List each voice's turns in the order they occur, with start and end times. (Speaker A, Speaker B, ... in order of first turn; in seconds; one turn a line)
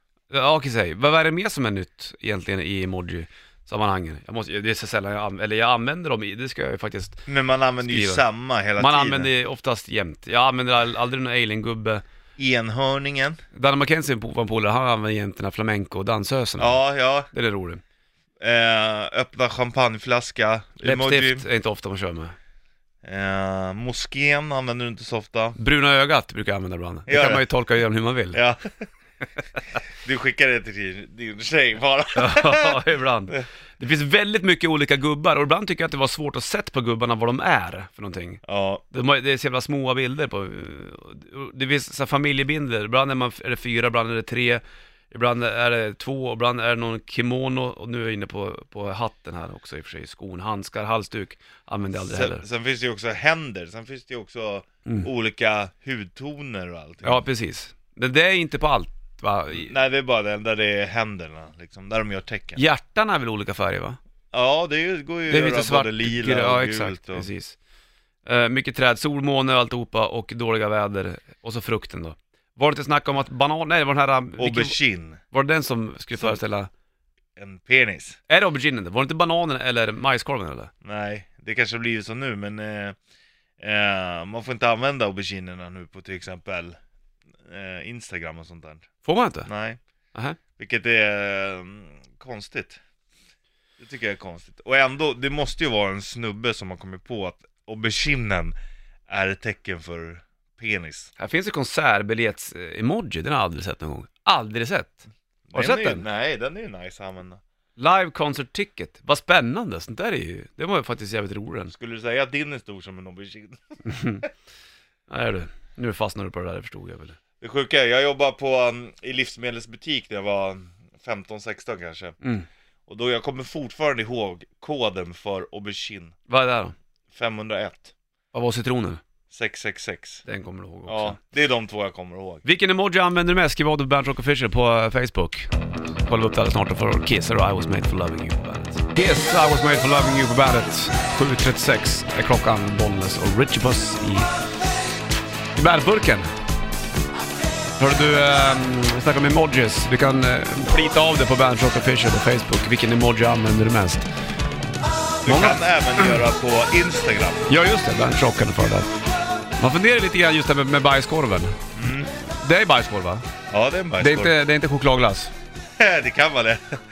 Speaker A: 0.3-7.2
Speaker B: 7.3-9.3
Speaker A: 7.9-8.2
Speaker A: 8.8-12.0
Speaker B: 12.4-13.4
Speaker A: 13.5-17.8
Speaker B: 16.6-17.3
Speaker B: 18.4-21.4
Speaker A: 20.8-22.3
Speaker B: 23.0-25.6
Speaker A: 25.6-28.4
Speaker B: 27.1-27.4
Speaker B: 28.3-28.8
Speaker B: 30.0-33.4
Speaker A: 32.1-52.4
Speaker B: 38.4-38.8
Speaker B: 52.0-57.2
Speaker A: 57.0-59.7
Speaker B: 59.5-62.6
Speaker A: 62.5-64.0
Speaker B: 64.3-67.2
Speaker A: 65.3-67.5
Speaker A: 68.2-74.8
Speaker B: 74.4-75.2
Speaker A: 75.3-76.7
Speaker B: 77.4-78.2
Speaker A: 78.3-80.7
Speaker B: 80.8-83.0
Speaker B: 83.6-86.8
Speaker B: 87.4-88.9
Speaker A: 89.0-89.5
Speaker B: 89.4-89.8
Speaker B: 90.6-92.8
Speaker B: 93.8-98.5
Speaker B: 99.1-101.1
Speaker A: 101.2-106.0
Speaker B: 105.5-107.4
Speaker A: 107.8-111.7
Speaker B: 111.7-113.6
Speaker A: 113.9-114.2
Speaker A: 115.1-117.2
Speaker B: 117.4-122.2
Speaker A: 122.2-122.5
Speaker B: 122.9-126.1
Speaker A: 126.3-126.7
Speaker B: 127.1-127.9
Speaker A: 128.3-129.0
Speaker B: 129.3-130.2
Speaker A: 130.2-131.2
Speaker B: 130.9-132.4
Speaker A: 132.4-135.5
Speaker A: 136.0-144.3
Speaker A: 145.5-146.3
Speaker A: 147.8-154.1
Speaker B: 155.2-157.5
Speaker A: 155.2-156.2
Speaker A: 157.5-158.9
Speaker A: 159.6-163.2
Speaker B: 161.7-162.1
Speaker B: 163.5-164.3
Speaker A: 164.0-165.3
Speaker B: 165.8-166.7